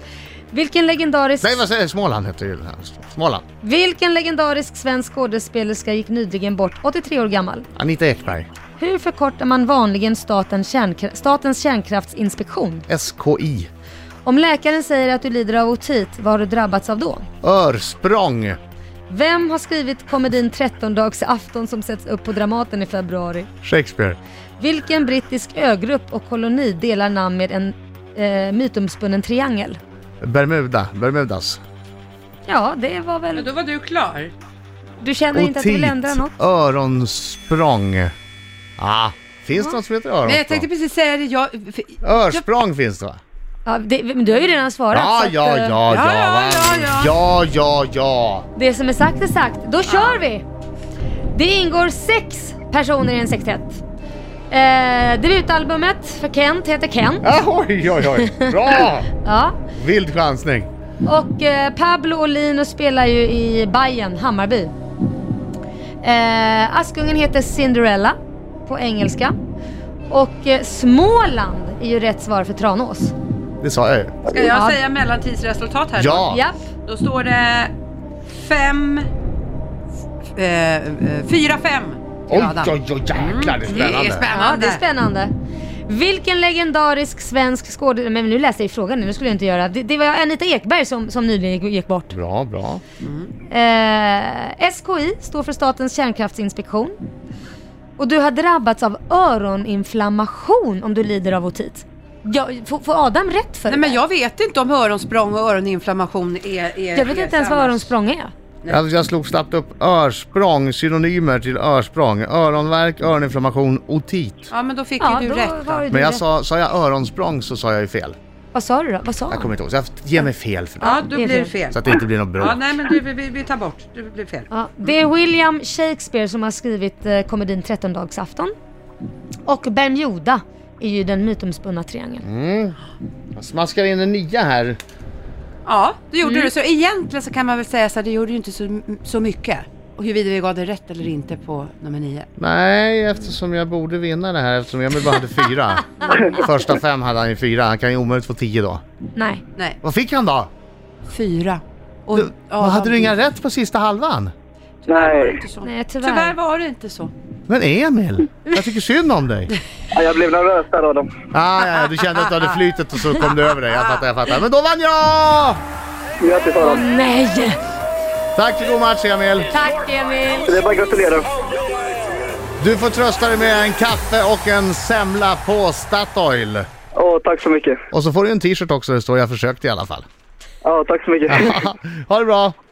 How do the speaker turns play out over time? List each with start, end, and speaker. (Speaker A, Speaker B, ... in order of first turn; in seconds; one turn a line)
Speaker A: 0.5-1.6
Speaker B: 1.4-3.4
Speaker A: 3.6-7.7
Speaker B: 7.8-8.5
Speaker A: 8.8-12.8
Speaker B: 12.9-13.7
Speaker A: 14.2-17.3
Speaker B: 17.4-18.6
Speaker A: 19.1-23.5
Speaker B: 23.6-24.2
Speaker A: 24.6-29.8
Speaker B: 30.2-31.6
Speaker A: 32.5-33.5
Speaker C: 33.3-34.3
Speaker A: 35.0-36.3
Speaker B: 35.3-38.1
Speaker B: 38.8-40.7
Speaker C: 40.2-42.4
Speaker B: 42.0-43.2
Speaker A: 43.6-45.8
Speaker B: 44.9-48.5
Speaker C: 45.9-47.1
Speaker A: 48.5-50.4
Speaker C: 49.9-50.2
Speaker A: 51.3-53.8
Speaker A: 54.5-57.3
Speaker B: 57.2-59.1
Speaker A: 59.2-59.6
Speaker B: 59.7-60.7
Speaker A: 61.0-64.7
Speaker A: 66.0-69.3
Speaker A: 70.1-73.1
Speaker B: 73.6-74.2
Speaker C: 74.2-77.7
Speaker A: 74.4-74.8
Speaker B: 76.0-76.4
Speaker A: 76.3-76.6
Speaker C: 78.3-79.1
Speaker C: 80.3-84.8
Speaker B: 82.3-84.3
Speaker A: 84.3-85.3
Speaker A: 85.9-92.1
Speaker B: 92.1-92.8
Speaker C: 93.0-93.3
Speaker A: 93.5-97.0
Speaker A: 98.0-104.0
Speaker C: 103.7-107.9
Speaker A: 106.9-108.3
Speaker B: 108.7-114.5
Speaker C: 114.5-115.8
Speaker A: 115.0-116.2
Speaker B: 115.9-118.2
Speaker A: 118.5-119.5
Speaker B: 119.3-121.1
Speaker C: 120.8-124.5
Speaker A: 121.0-121.5
Speaker B: 121.7-122.6
Speaker A: 124.5-128.5
Speaker A: 129.4-132.2
Speaker B: 132.2-132.8
Speaker B: 133.3-134.8
Speaker C: 135.6-142.3
Speaker A: 136.2-136.5
Speaker B: 142.4-148.8
Speaker A: 149.1-149.4
Speaker B: 149.8-150.5
Speaker C: 151.1-153.2
Speaker B: 152.1-154.3
Speaker C: 154.8-157.1
Speaker D: 154.9-155.4
Speaker A: 155.6-156.3
Speaker B: 157.5-159.5
Speaker D: 159.9-161.1
Speaker B: 161.3-165.6
Speaker D: 166.2-166.8
Speaker A: 166.6-167.6
Speaker B: 168.3-169.5
Speaker A: 169.5-170.5
Speaker D: 170.5-171.3
Speaker B: 172.6-176.7
Speaker D: 176.9-177.8
Speaker B: 177.9-180.1
Speaker D: 180.6-181.6
Speaker B: 181.3-182.5